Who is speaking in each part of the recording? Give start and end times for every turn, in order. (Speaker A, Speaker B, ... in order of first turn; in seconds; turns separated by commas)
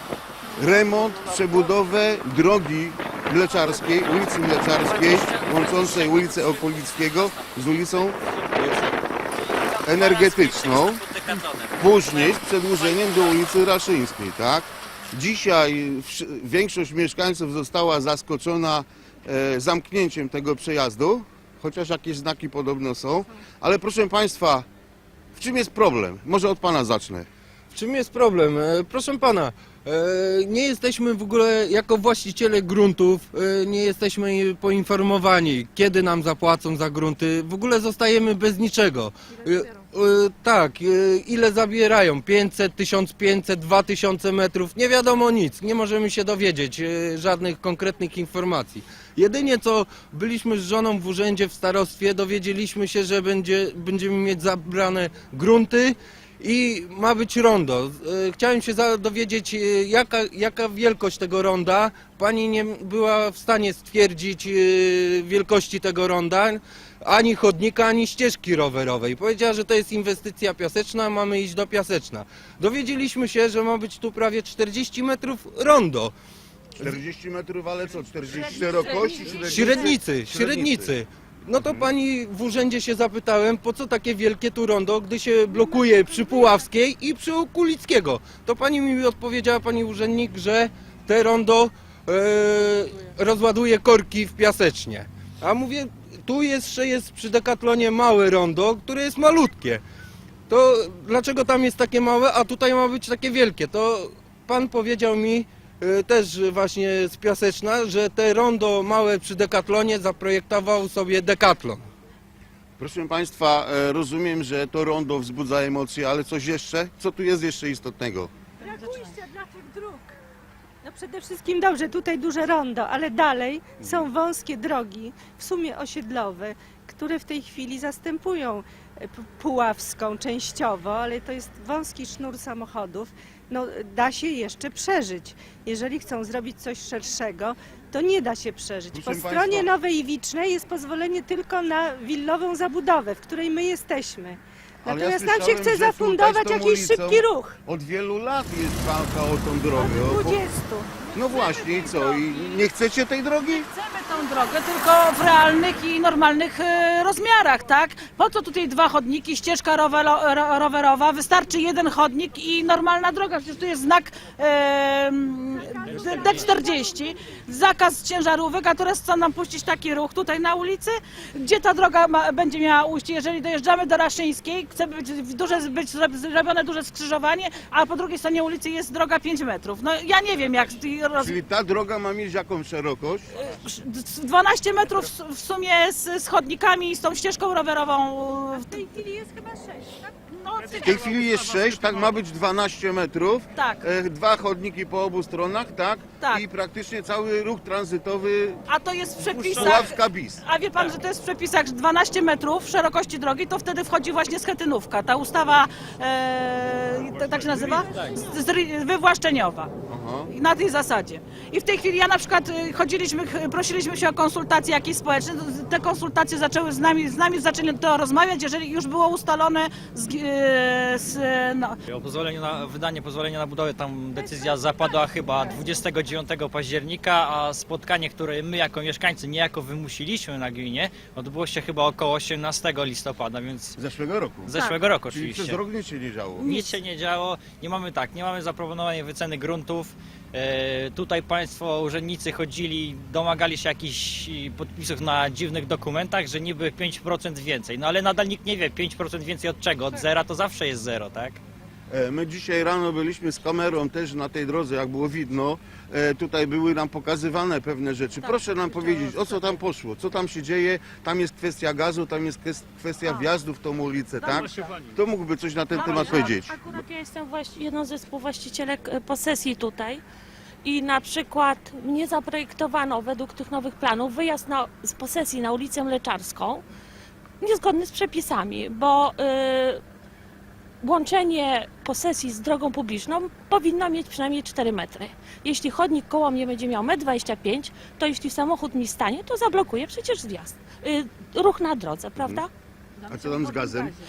Speaker A: 0.6-8.2, Speaker B: 5.0-5.5, Speaker C: 5.4-6.4, Speaker B: 8.6-8.9, Speaker B: 9.6-11.7, Speaker A: 9.8-11.1, Speaker A: 11.8-24.7, Speaker A: 25.4-27.3, Speaker D: 27.7-76.1, Speaker A: 76.8-80.9, Speaker E: 78.6-79.9, Speaker C: 79.1-79.5, Speaker D: 79.5-99.8, Speaker A: 81.6-81.8, Speaker E: 85.5-86.6, Speaker D: 100.5-111.9, Speaker A: 112.8-118.3, Speaker E: 118.6-120.2, Speaker E: 120.8-147.6, Speaker A: 138.9-139.7, Speaker A: 144.8-150.4, Speaker E: 149.7-150.9, Speaker C: 151.0-152.7, Speaker A: 151.1-153.7, Speaker C: 153.6-181.4, Speaker E: 165.5-167.0, Speaker A: 181.2-183.3, Speaker C: 183.4-188.8, Speaker E: 188.5-190.1, Speaker C: 190.3-191.1, Speaker A: 190.8-198.6, Speaker C: 193.6-193.8, Speaker C: 198.7-209.7, Speaker B: 199.3-199.8, Speaker A: 199.6-200.4, Speaker A: 209.9-210.3, Speaker C: 210.3-221.8, Speaker B: 221.9-233.8, Speaker A: 233.8-234.5, Speaker B: 234.5-235.6, Speaker A: 235.1-236.5, Speaker B: 236.4-251.4, Speaker C: 236.4-236.7, Speaker A: 251.9-266.7, Speaker C: 258.2-259.5, Speaker C: 265.7-266.4, Speaker F: 266.1-270.0, Speaker F: 270.6-276.6, Speaker F: 277.4-279.8, Speaker F: 280.8-292.5, Speaker A: 292.2-292.4, Speaker A: 293.1-294.0